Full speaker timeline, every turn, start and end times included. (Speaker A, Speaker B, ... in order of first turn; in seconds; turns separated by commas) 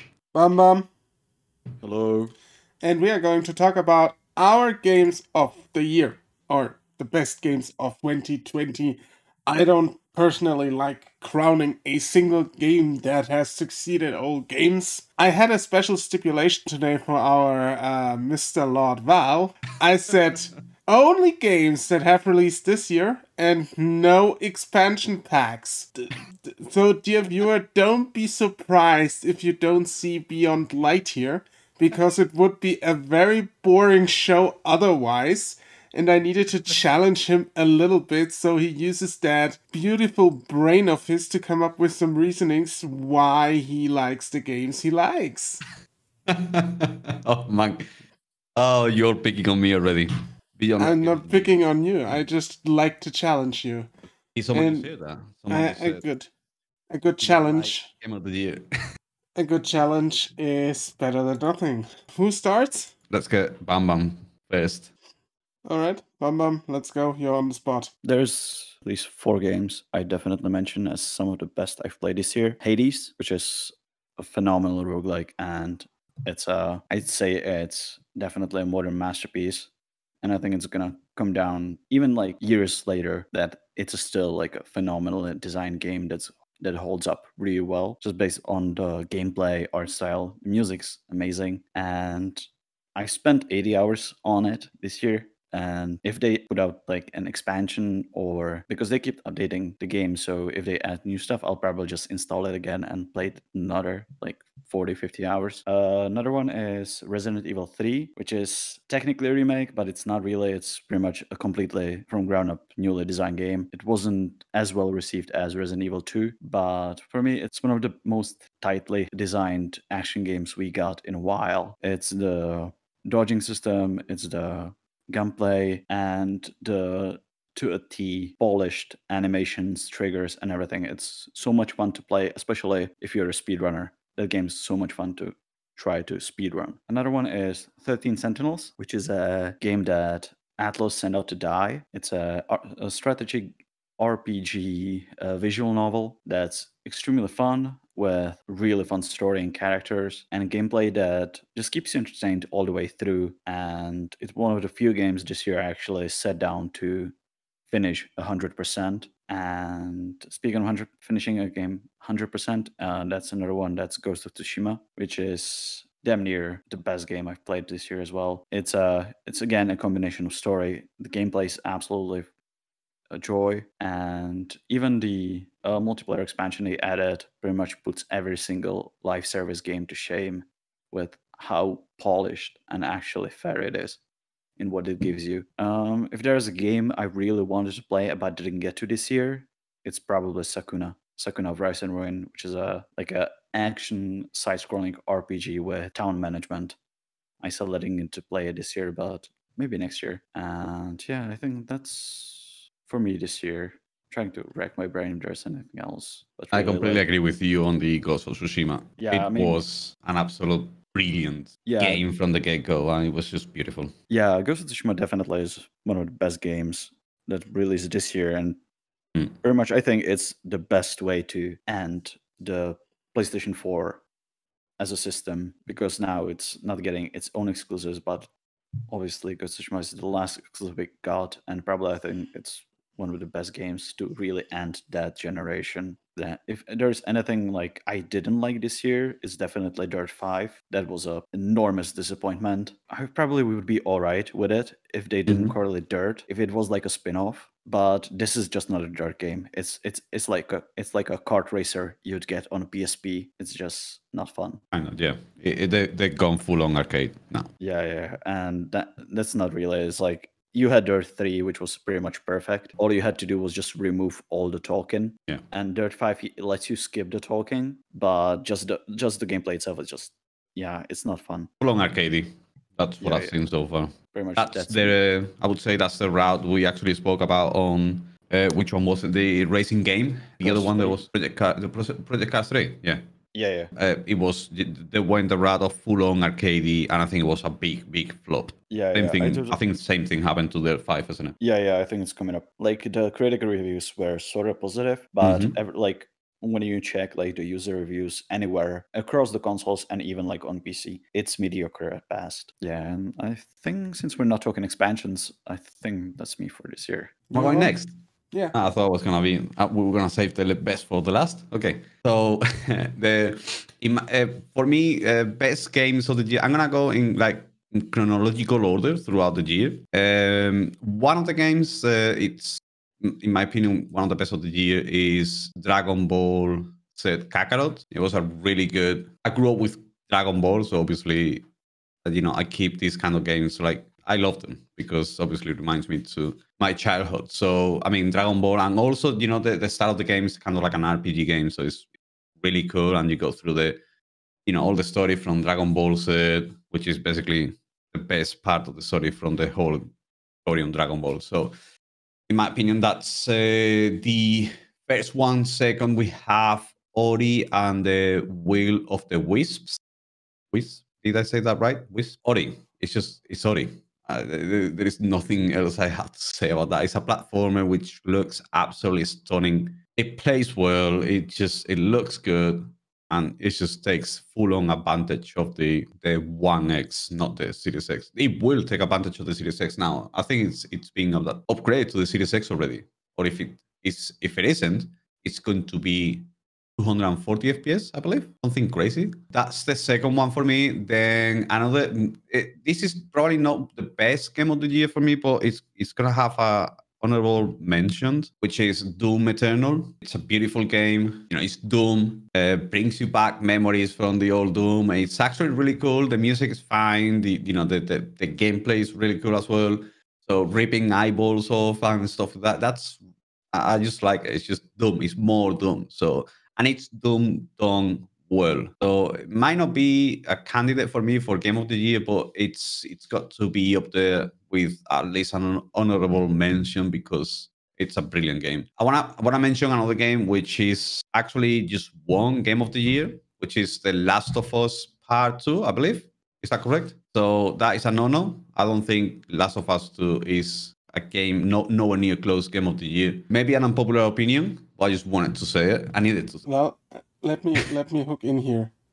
Speaker A: 0.3-0.9, Speaker B: 1.8-2.3, Speaker A: 2.8-45.6, Speaker C: 46.3-47.9, Speaker C: 48.6-51.6, Speaker A: 50.8-53.9, Speaker C: 54.4-56.0, Speaker A: 54.5-54.9, Speaker A: 55.5-56.3, Speaker A: 56.9-57.9, Speaker C: 57.2-58.7, Speaker A: 59.4-62.9, Speaker C: 63.1-64.9, Speaker A: 65.7-67.9, Speaker B: 68.0-79.7, Speaker B: 80.2-157.1, Speaker B: 157.7-172.3, Speaker B: 173.1-184.0, Speaker B: 184.6-196.8, Speaker B: 197.4-207.0, Speaker C: 206.5-213.9, Speaker B: 209.0-209.6, Speaker B: 211.7-212.0, Speaker B: 214.1-218.6, Speaker B: 219.4-224.0, Speaker B: 224.8-228.3, Speaker B: 228.9-254.6, Speaker C: 245.3-245.6, Speaker C: 254.7-257.5, Speaker B: 257.6-271.5, Speaker C: 271.6-283.0, Speaker B: 273.0-273.3, Speaker B: 274.1-275.0, Speaker B: 280.4-281.0, Speaker B: 283.3-283.7, Speaker C: 283.8-291.4, Speaker B: 288.7-289.6, Speaker B: 291.4-307.2, Speaker C: 295.2-295.6, Speaker A: 307.3-307.7, Speaker C: 307.3-307.9, Speaker C: 308.5-331.4, Speaker C: 332.0-341.9, Speaker C: 342.4-343.8, Speaker C: 344.5-349.9, Speaker C: 350.4-351.5, Speaker C: 352.3-359.8, Speaker C: 360.5-413.0, Speaker C: 413.5-446.4, Speaker A: 446.5-448.7